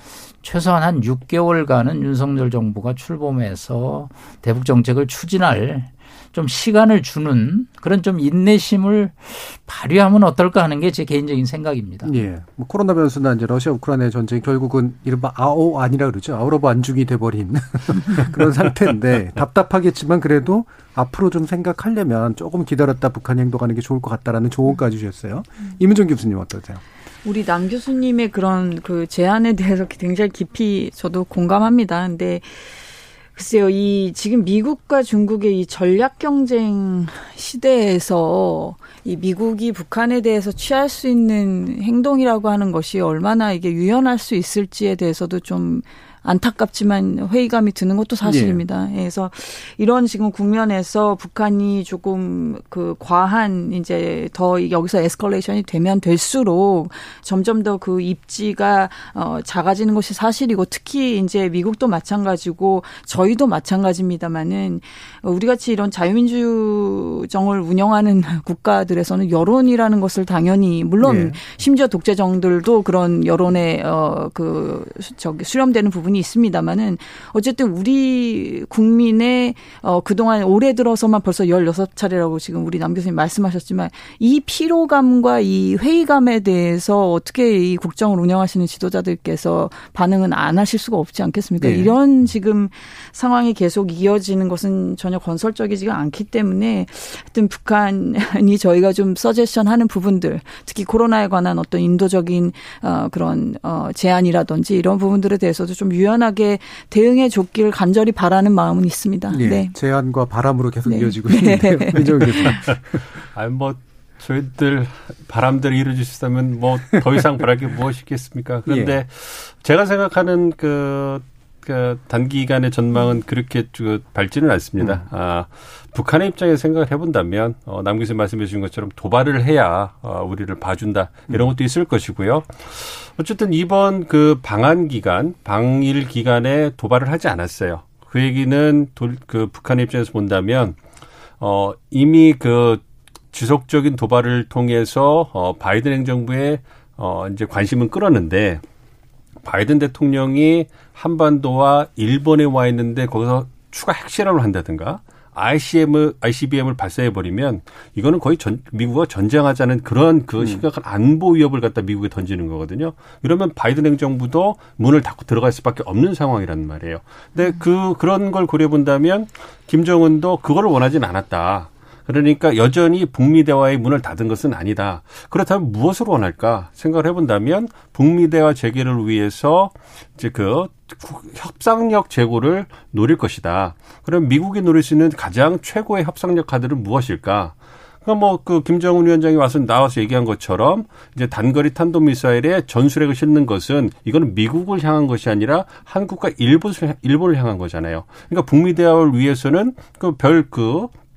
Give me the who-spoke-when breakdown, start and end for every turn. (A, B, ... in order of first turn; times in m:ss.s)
0:00.4-0:12.1 A
0:12.0-0:26.8 B
0:27.2-0:32.7 C
0:33.4-1:49.7 C
0:48.2-0:48.6 B
1:11.0-1:11.4 B
1:31.6-1:31.9 B
1:49.3-1:53.0 B
1:50.9-1:52.6 C
1:53.3-2:20.8 D
1:58.7-1:59.0 B
2:21.4-2:22.8 D
2:23.3-2:28.6 D
2:29.4-3:20.9 D